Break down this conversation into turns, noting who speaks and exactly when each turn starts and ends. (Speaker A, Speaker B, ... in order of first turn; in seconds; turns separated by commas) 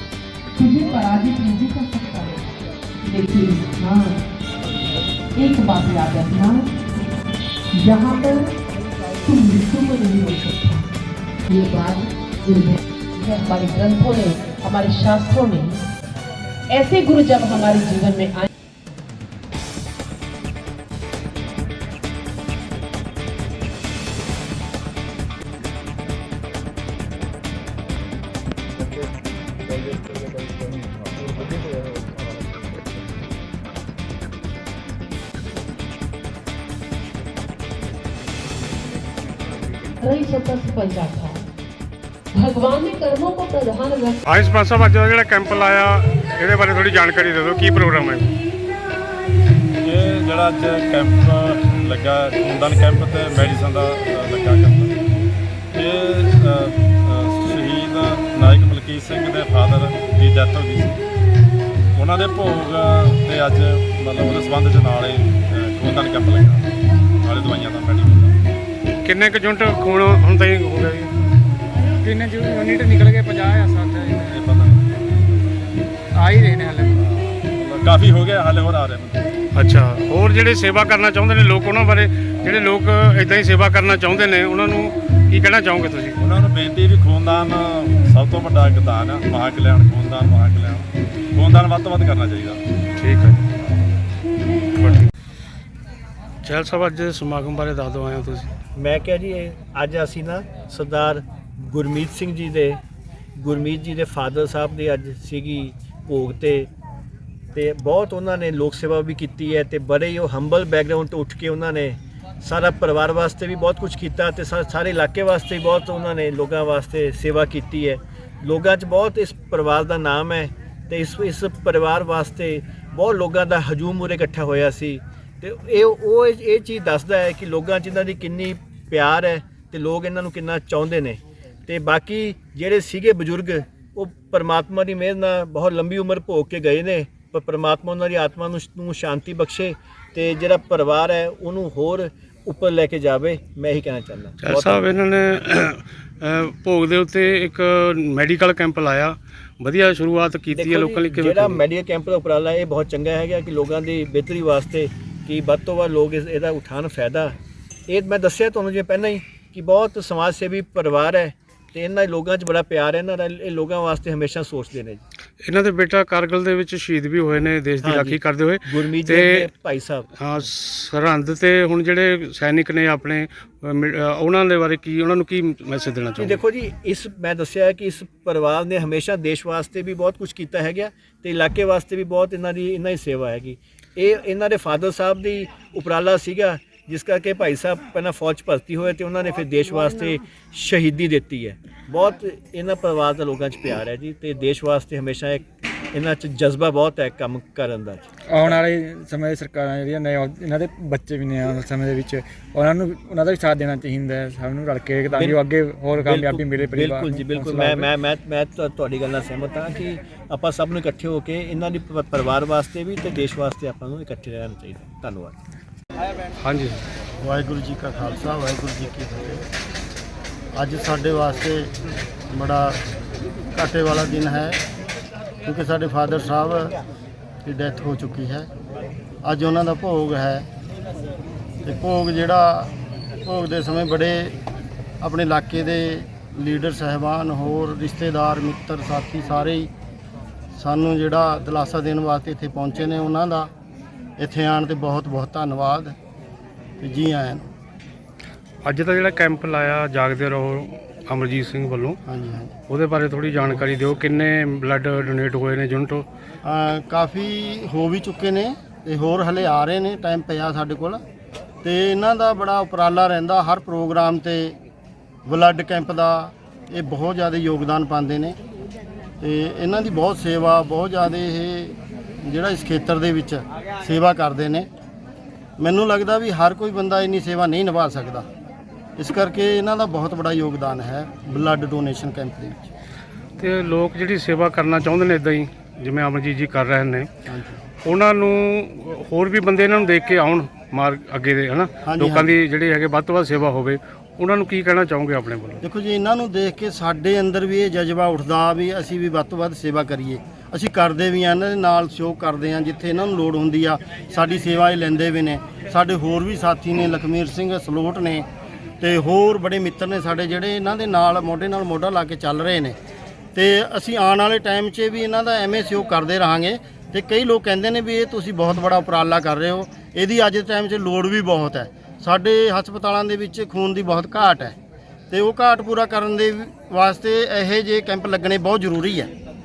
Speaker A: 0.5-2.5, Speaker A: 3.0-4.2, Speaker A: 5.3-6.8, Speaker A: 7.7-8.5, Speaker A: 9.2-15.8, Speaker A: 16.7-18.5, Speaker B: 29.7-32.8, Speaker A: 40.0-41.4, Speaker A: 42.3-44.2, Speaker C: 44.2-48.4, Speaker D: 49.8-55.0, Speaker D: 55.7-61.0, Speaker D: 61.9-68.4, Speaker C: 69.0-71.1, Speaker B: 72.0-74.3, Speaker D: 74.3-75.7, Speaker B: 76.2-76.9, Speaker D: 77.0-79.3, Speaker C: 79.5-86.2, Speaker D: 86.2-92.6, Speaker C: 93.0-93.4, Speaker C: 94.8-95.1, Speaker C: 96.4-98.5, Speaker E: 98.8-102.8, Speaker E: 103.4-106.7, Speaker E: 107.5-144.8, Speaker C: 144.4-151.6, Speaker E: 150.5-157.3, Speaker E: 157.9-165.0, Speaker C: 165.4-169.5, Speaker E: 167.8-170.1, Speaker C: 170.2-176.4, Speaker E: 176.2-198.0, Speaker B: 198.3-207.9, Speaker E: 205.1-205.4, Speaker E: 206.0-215.3, Speaker C: 216.4-216.8, Speaker F: 217.2-219.4, Speaker F: 220.6-221.7, Speaker F: 222.3-222.8, Speaker F: 223.5-224.6, Speaker F: 225.4-226.8, Speaker F: 227.4-228.5, Speaker F: 229.2-230.4, Speaker F: 231.6-232.7, Speaker F: 233.2-234.3, Speaker F: 235.0-239.7, Speaker F: 240.5-243.5, Speaker F: 244.2-245.9, Speaker F: 246.8-247.4, Speaker C: 248.6-252.0, Speaker F: 252.1-252.5, Speaker C: 252.7-256.0, Speaker F: 256.4-261.0, Speaker F: 261.6-264.5, Speaker F: 265.3-268.4, Speaker F: 269.2-274.7, Speaker F: 275.6-278.2, Speaker F: 279.0-282.6, Speaker C: 283.4-287.1, Speaker F: 287.3-287.6, Speaker C: 287.8-295.6, Speaker F: 291.8-292.3, Speaker F: 295.6-308.2, Speaker F: 308.8-312.8, Speaker F: 313.3-324.5, Speaker F: 325.1-329.1